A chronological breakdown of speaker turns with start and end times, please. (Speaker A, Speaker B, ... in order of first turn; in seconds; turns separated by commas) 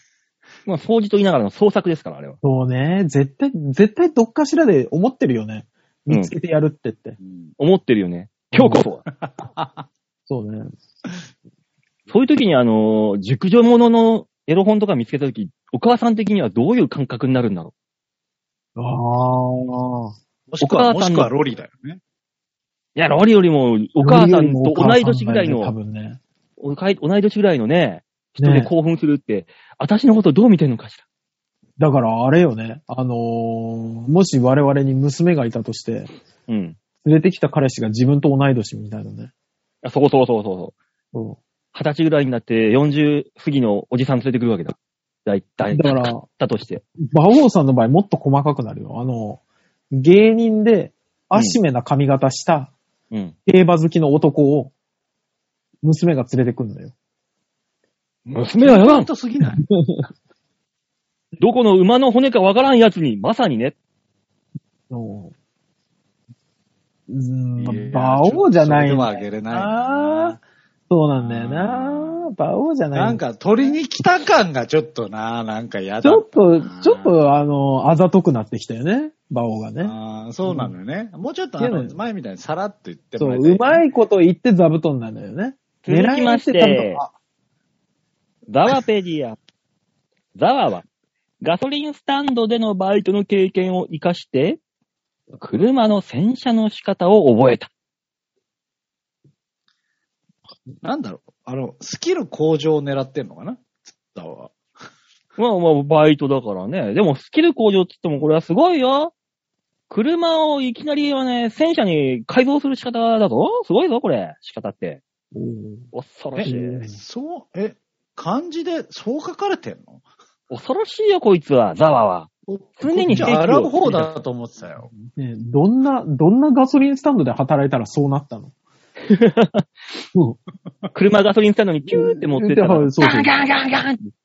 Speaker A: 0.7-2.4, Speaker B: 2.4-7.2, Speaker C: 7.2-7.5, Speaker A: 7.6-9.0, Speaker B: 8.5-8.8, Speaker C: 9.1-9.8, Speaker B: 10.3-10.7, Speaker A: 12.1-17.7, Speaker B: 18.8-20.1, Speaker C: 20.5-22.0, Speaker A: 20.6-21.3, Speaker A: 22.9-25.7, Speaker B: 24.0-26.2, Speaker A: 26.6-31.0, Speaker B: 28.4-28.7, Speaker B: 31.8-36.1, Speaker A: 36.5-36.8, Speaker B: 37.0-39.3, Speaker A: 39.8-40.7, Speaker B: 41.1-41.4, Speaker A: 41.7-46.8, Speaker B: 45.7-46.2, Speaker B: 47.0-49.4, Speaker B: 49.9-52.7, Speaker B: 53.5-54.7, Speaker B: 55.8-56.9, Speaker C: 58.2-59.6, Speaker A: 58.3-59.1, Speaker B: 59.6-60.1, Speaker A: 61.4-63.7, Speaker B: 64.9-65.3, Speaker B: 67.1-70.4, Speaker C: 67.6-70.4, Speaker B: 70.9-73.2, Speaker C: 71.2-72.3, Speaker C: 72.9-77.2, Speaker B: 76.0-80.7, Speaker C: 79.8-83.8, Speaker B: 81.6-82.0, Speaker B: 83.2-87.1, Speaker A: 85.8-87.0, Speaker A: 88.5-89.4, Speaker A: 90.3-90.8, Speaker A: 91.4-94.6, Speaker A: 95.3-97.7, Speaker C: 100.8-104.5, Speaker A: 105.4-109.1, Speaker A: 109.9-115.0, Speaker B: 115.3-115.9, Speaker A: 115.9-116.8, Speaker C: 116.3-120.0, Speaker B: 116.4-117.0, Speaker A: 120.5-124.1, Speaker C: 122.5-124.9, Speaker B: 125.0-128.5, Speaker A: 129.1-129.7, Speaker A: 130.9-134.0, Speaker B: 131.9-133.4